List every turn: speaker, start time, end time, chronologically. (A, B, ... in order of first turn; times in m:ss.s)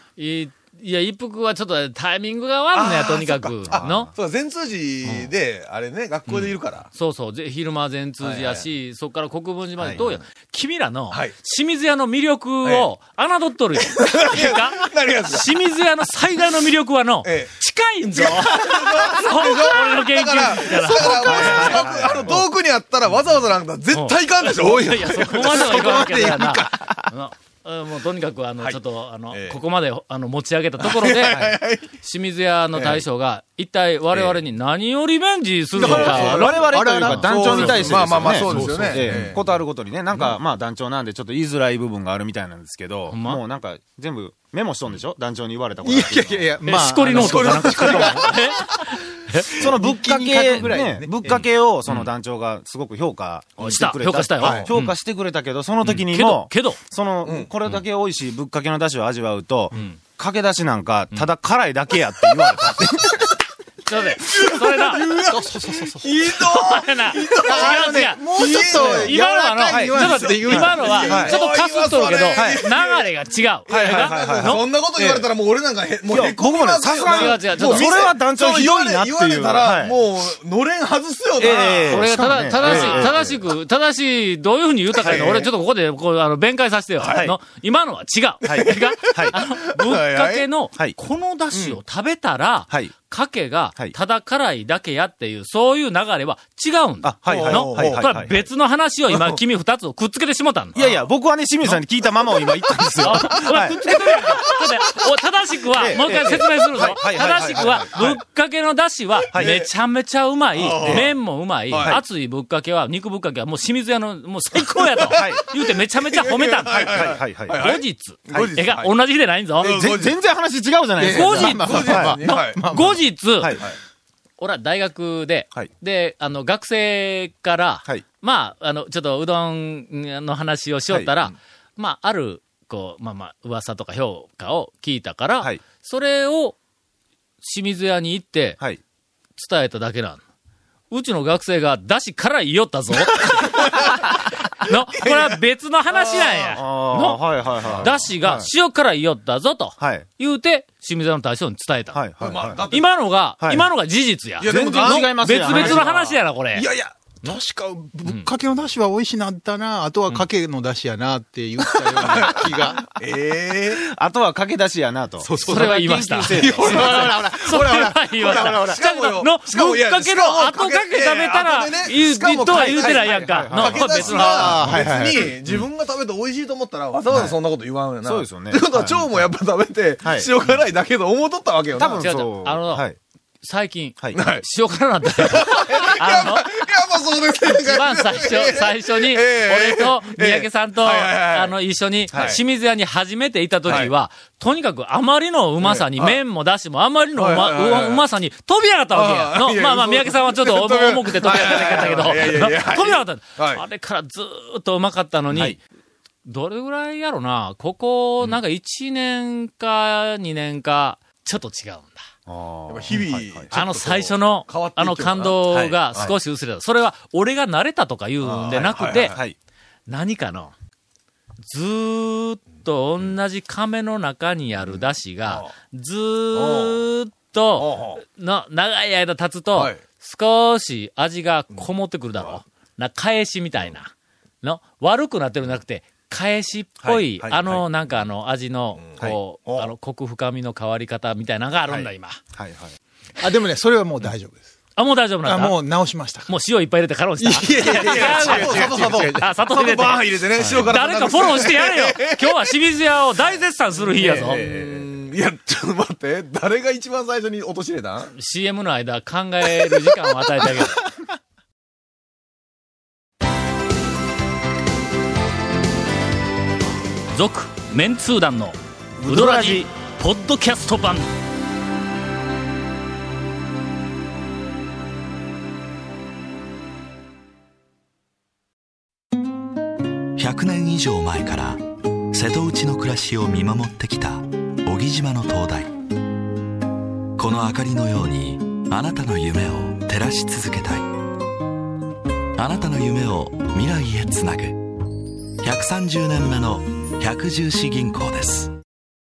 0:00.2-0:04.1 A
0:02.7-0:06.9 B
0:03.7-0:04.0 C
0:05.0-0:05.3 A
0:06.3-0:22.4 A
0:08.2-0:08.6 B
0:12.6-0:12.9 B
0:13.8-0:15.5 B
0:17.2-0:17.5 B
0:18.1-0:27.0 B
0:21.0-0:22.4 C
0:23.9-0:37.2 A
0:29.3-0:29.6 B
0:30.8-0:31.9 B
0:32.7-0:33.0 B
0:35.8-0:36.6 B
0:35.8-0:39.4 D
0:35.8-0:46.5 C
0:37.2-0:39.4 B
0:43.1-0:43.4 A
0:45.8-0:48.9 D
0:46.6-0:49.5 A
0:47.1-0:48.3 B
0:49.6-0:51.4 D
0:49.6-1:03.3 C
0:53.6-0:55.0 A
0:54.4-0:54.7 D
0:55.8-0:56.8 A
1:03.9-1:05.1 A
1:04.1-1:09.2 B
1:05.2-1:06.1 D
1:06.3-1:14.6 A
1:07.4-1:11.2 D
1:09.7-1:13.1 B
1:10.5-1:11.4 C
1:12.3-1:12.6 C
1:13.7-1:22.1 B
1:13.7-1:15.3 C
1:16.1-1:20.0 C
1:17.1-1:18.0 A
1:21.4-1:23.4 C
1:21.9-1:40.8 A
1:22.1-1:22.6 D
1:22.6-1:23.3 B
1:24.9-1:25.5 B
1:27.0-1:27.3 B
1:28.4-1:29.3 C
1:28.4-1:30.4 B
1:31.5-1:31.8 B
1:37.0-1:38.4 C
1:37.2-1:38.1 B
1:39.1-1:39.4 B
1:40.7-1:43.8 C
1:40.8-1:41.0 B
1:42.8-1:44.8 B
1:43.0-1:59.9 A
1:45.8-1:48.2 C
1:47.2-1:48.2 B
1:49.3-1:49.7 B
1:50.5-1:51.1 B
1:50.8-1:51.1 C
1:51.7-1:52.0 B
1:55.0-1:58.9 B
1:55.1-1:55.4 C
1:56.7-1:57.6 C
1:59.6-2:00.2 B
1:59.7-2:02.2 C
2:01.0-2:03.0 D
2:01.0-2:03.6 A
2:01.5-2:02.6 B
2:04.4-2:16.6 A
2:17.4-2:18.6 A
2:19.4-2:20.2 A
2:20.9-2:27.2 A
2:23.2-2:24.1 B
2:25.0-2:25.4 B
2:25.9-2:26.6 B
2:26.6-2:28.5 C
2:27.6-2:27.9 B
2:27.8-2:32.0 A
2:29.8-2:30.0 C
2:31.9-2:32.6 C
2:32.2-2:32.9 B
2:32.7-2:36.7 A
2:33.4-2:33.7 C
2:34.4-2:35.8 B
2:34.4-2:36.2 C
2:36.5-2:37.0 B
2:37.2-2:42.8 D
2:42.0-2:43.8 B
2:43.8-2:47.1 C
2:45.2-2:48.8 D
2:45.4-2:54.7 A
2:46.5-2:47.0 B
2:48.2-3:02.0 B
2:52.5-2:54.8 C
2:53.9-2:55.4 D
2:57.1-2:57.4 C
2:58.0-2:59.3 C
3:00.0-3:00.3 C
3:01.8-3:03.0 C
3:02.0-3:02.9 A
3:03.4-3:06.5 A
3:04.1-3:04.4 B
3:05.2-3:11.5 B
3:07.4-3:25.6 A
3:12.1-3:12.4 C
3:12.1-3:12.4 B
3:13.6-3:13.9 B
3:15.6-3:16.2 B
3:17.2-3:18.0 B
3:18.9-3:23.6 B
3:25.3-3:25.6 C
3:26.2-3:32.0 A
3:32.3-3:33.5 C
3:32.7-3:35.4 B
3:33.5-3:39.2 A
3:35.5-3:36.1 C
3:38.2-3:39.2 B
3:38.4-3:39.4 C
3:39.9-3:40.5 A
3:41.4-4:02.2 A
3:44.7-3:45.5 B
3:46.3-3:46.8 B
3:47.6-3:48.0 B
3:49.5-3:49.8 B
3:51.5-3:52.4 B
3:56.8-3:57.6 C
3:58.8-3:59.7 B
4:01.7-4:02.8 C
4:03.2-4:04.4 D
4:04.8-4:05.6 A
4:05.2-4:06.3 D
4:06.3-4:14.4 A
4:07.2-4:09.3 D
4:07.6-4:12.5 B
4:10.4-4:10.7 C
4:13.9-4:18.1 B
4:14.2-4:14.8 C
4:18.1-4:20.8 A
4:19.4-4:20.6 B
4:27.1-4:31.1 A
4:29.0-4:29.6 C
4:40.1-4:45.7 E
4:47.2-4:51.0 E
4:52.4-4:54.8 E
4:55.4-4:58.6 E